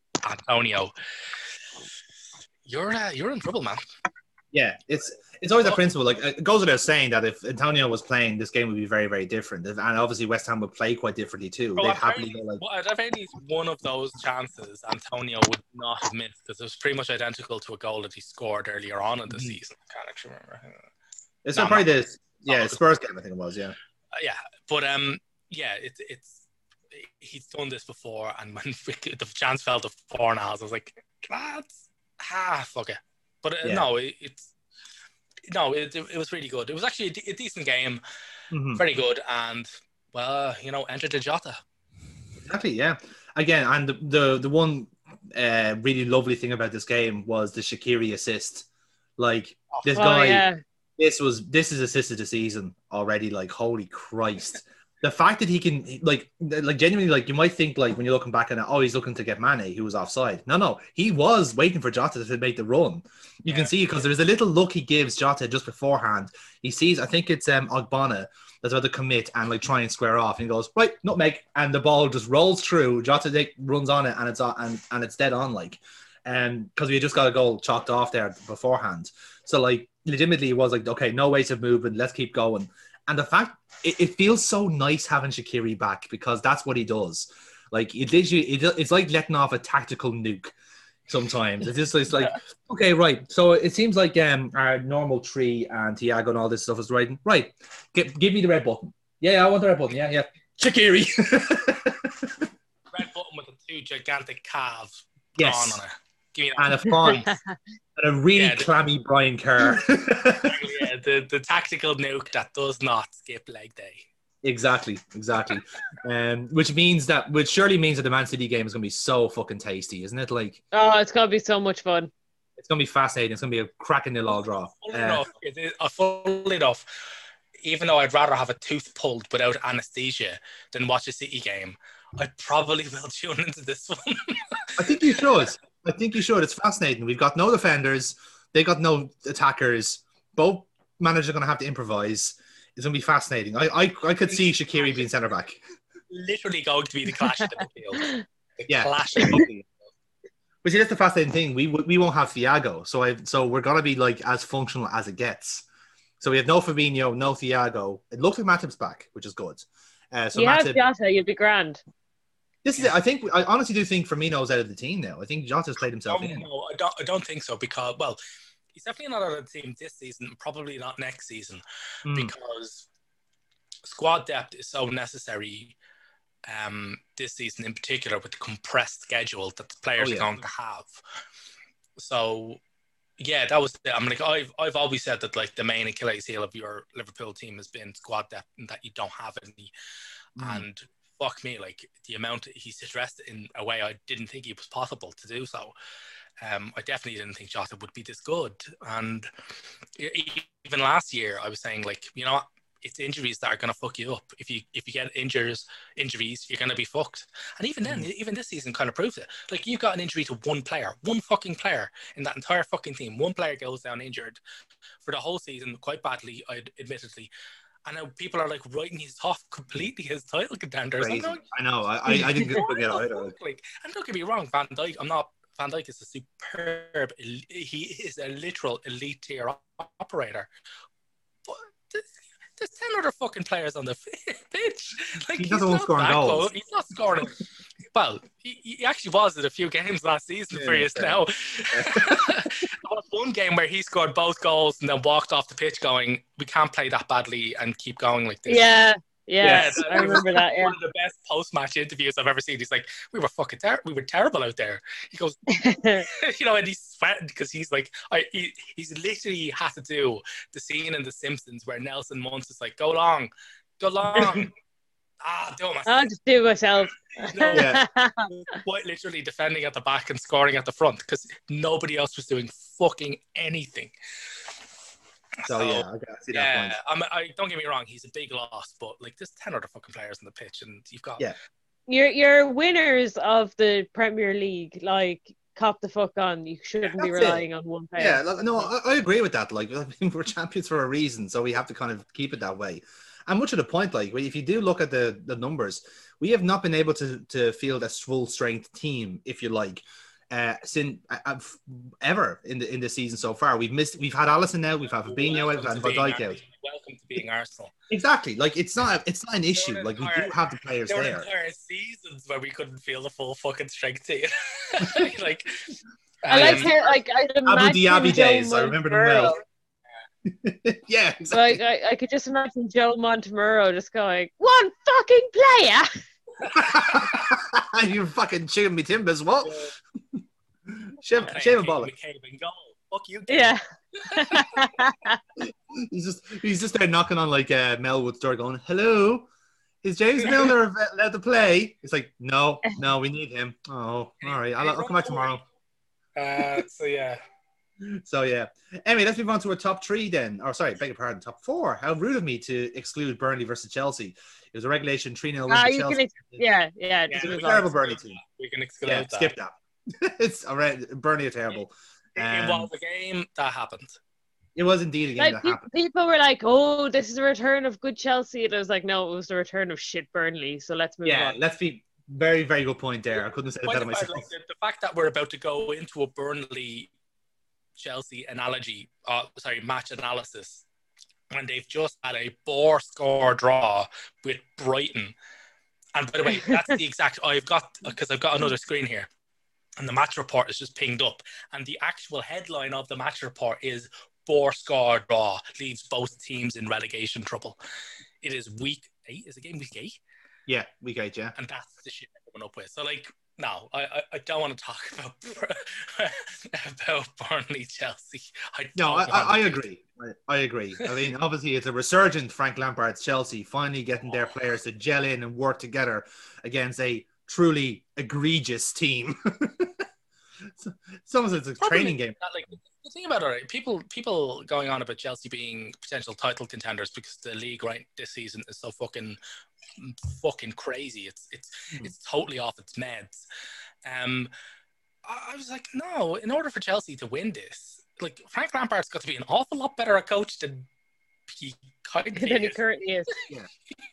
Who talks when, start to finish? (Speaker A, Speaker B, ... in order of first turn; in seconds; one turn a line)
Speaker A: 0.2-0.9
Speaker A: 2.6-3.8
Speaker B: 4.5-12.6
Speaker A: 11.8-20.8
Speaker B: 19.3-19.6
Speaker B: 21.4-23.8
Speaker A: 21.6-22.8
Speaker A: 24.1-34.5
Speaker B: 33.6-33.9
Speaker A: 35.5-38.0
Speaker B: 38.5-38.8
Speaker A: 38.7-41.6
Speaker B: 42.4-48.7
Speaker B: 49.2-50.5
Speaker C: 49.9-50.6
Speaker B: 51.0-90.5
Speaker A: 63.5-63.7
Speaker B: 91.1-102.4
Speaker A: 102.9-107.3
Speaker B: 105.4-105.8
Speaker B: 106.6-107.3
Speaker C: 106.9-107.6
Speaker B: 108.0-110.6
Speaker A: 108.4-108.7
Speaker A: 110.3-114.0
Speaker B: 114.4-120.6
Speaker C: 120.7-122.1
Speaker B: 122.6-125.2
Speaker A: 124.8-127.0
Speaker A: 127.6-135.5
Speaker B: 134.8-145.6
Speaker A: 146.1-149.5
Speaker B: 148.7-149.7
Speaker B: 150.6-155.7
Speaker B: 156.2-160.9
Speaker C: 160.3-161.8
Speaker B: 162.6-166.4
Speaker A: 166.1-168.2
Speaker A: 168.7-172.9
Speaker B: 172.1-172.3
Speaker A: 173.8-175.7
Speaker A: 176.4-181.0
Speaker B: 180.0-180.3
Speaker A: 182.0-182.6
Speaker A: 183.2-189.7
Speaker B: 190.4-190.7
Speaker A: 190.4-195.7
Speaker A: 196.4-199.3
Speaker A: 199.9-214.4
Speaker A: 215.0-217.3
Speaker A: 217.8-221.4
Speaker B: 221.0-223.3
Speaker C: 222.1-222.4
Speaker A: 222.1-230.5
Speaker A: 231.4-237.4
Speaker B: 235.4-236.5
Speaker A: 237.9-248.8
Speaker B: 240.5-242.5
Speaker C: 248.5-250.8
Speaker A: 249.4-264.5
Speaker B: 249.4-250.2
Speaker C: 255.5-256.1
Speaker B: 264.1-264.5
Speaker A: 265.2-266.1
Speaker C: 265.9-268.6
Speaker A: 267.2-267.8
Speaker B: 267.5-267.8
Speaker A: 268.3-273.9
Speaker A: 275.4-281.3
Speaker B: 275.4-276.8
Speaker C: 281.9-288.6
Speaker B: 287.0-287.4
Speaker B: 288.0-306.4
Speaker A: 305.1-307.7
Speaker B: 307.9-311.3
Speaker A: 309.5-315.7
Speaker B: 314.8-315.1
Speaker A: 316.2-316.7
Speaker C: 316.3-319.4
Speaker B: 316.3-316.7
Speaker B: 317.4-319.4
Speaker B: 320.2-321.6
Speaker C: 321.3-325.9
Speaker B: 326.4-331.9
Speaker A: 329.4-329.7
Speaker A: 331.2-334.7
Speaker C: 333.3-335.2
Speaker B: 335.4-339.3
Speaker B: 339.8-345.4
Speaker A: 340.2-340.6
Speaker A: 344.2-345.4
Speaker A: 346.1-347.2
Speaker B: 347.8-356.4
Speaker C: 355.5-357.6
Speaker A: 357.1-359.3
Speaker B: 357.2-358.2
Speaker B: 358.8-362.7
Speaker A: 362.2-364.0
Speaker B: 364.6-365.7
Speaker C: 365.2-371.4
Speaker B: 371.1-374.3
Speaker A: 373.6-376.9
Speaker A: 377.8-380.6
Speaker A: 381.3-385.1
Speaker A: 385.9-389.1
Speaker C: 386.4-386.7
Speaker A: 389.8-397.6
Speaker A: 398.2-400.0
Speaker B: 400.5-401.3
Speaker A: 401.4-409.5
Speaker B: 408.8-419.9
Speaker B: 420.6-422.2
Speaker A: 421.6-429.2
Speaker A: 429.8-433.2
Speaker A: 433.8-434.3
Speaker A: 435.1-440.6
Speaker A: 441.3-442.6
Speaker C: 442.2-443.1